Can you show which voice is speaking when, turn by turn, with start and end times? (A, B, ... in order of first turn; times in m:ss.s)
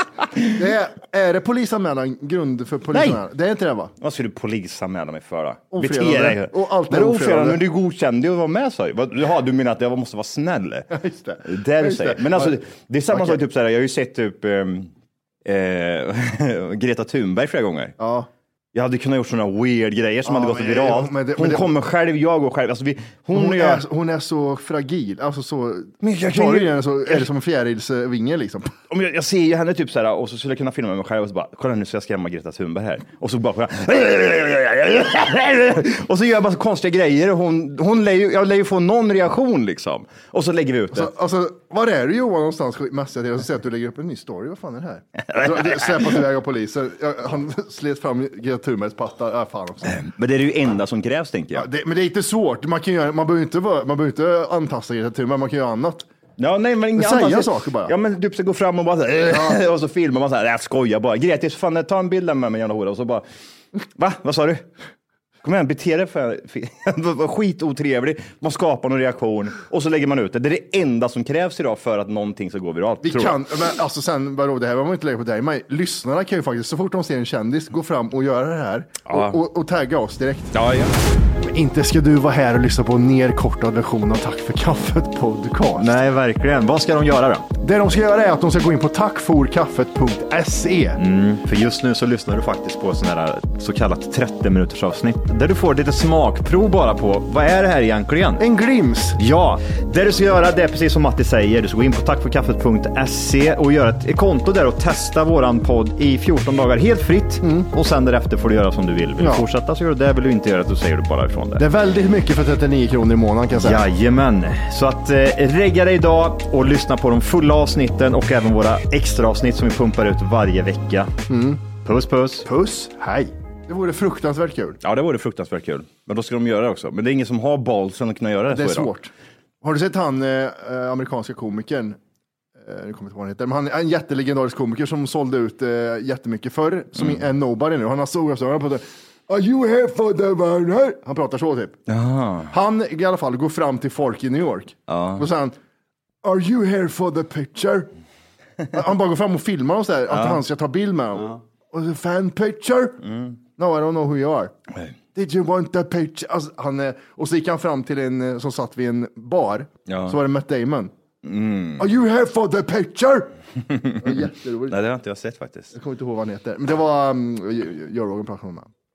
0:00.5-0:03.9 A
0:02.9-0:03.2 B
0:04.0-0:14.9 B
0:05.7-0:07.6 A
0:10.9-0:12.6 A
0:13.1-0:13.4 A
0:15.4-0:18.0 B
0:18.0-0:18.3 A
0:18.7-0:23.8 B
0:20.2-0:21.7 A
0:23.3-0:28.8 A
0:26.0-0:27.3 B
0:28.9-0:41.1 B
0:40.9-0:50.0 A
0:45.3-0:46.2 B
0:49.8-0:51.7 B
0:51.6-0:56.1 A
0:56.4-1:03.2 B
0:57.0-0:57.9 A
0:59.3-0:59.6 A
1:03.9-1:04.6 B
1:05.4-1:13.4 B
1:13.0-1:20.5 A
1:19.1-1:19.4 B
1:20.5-1:20.9 B
1:21.4-1:26.0 A
1:25.8-1:27.5 B
1:27.6-1:31.0 A
1:31.0-1:38.4 B
1:38.4-1:39.2 A
1:39.2-1:51.6 B
1:47.4-1:47.7 A
1:49.2-1:49.4 A
1:51.6-1:53.8 A
1:53.6-2:01.1 B
2:01.3-2:01.6 A
2:01.8-2:02.5 B
2:02.4-2:04.8 A
2:04.8-2:08.9 B
2:08.5-2:09.1 A
2:09.6-2:12.0 A
2:12.6-2:21.8 A
2:17.0-2:17.2 B
2:21.9-2:22.5 B
2:22.5-2:25.6 A
2:24.9-2:25.3 B
2:26.2-2:27.9 A
2:28.7-2:33.0 A
2:30.1-2:30.4 B
2:33.1-2:33.3 B
2:33.6-2:34.5 A
2:35.2-2:40.9 A
2:39.9-2:40.2 B
2:41.2-2:41.9 B
2:41.8-2:43.3 A
2:43.7-2:45.7 B
2:44.0-2:44.8 A
2:45.7-2:48.7 A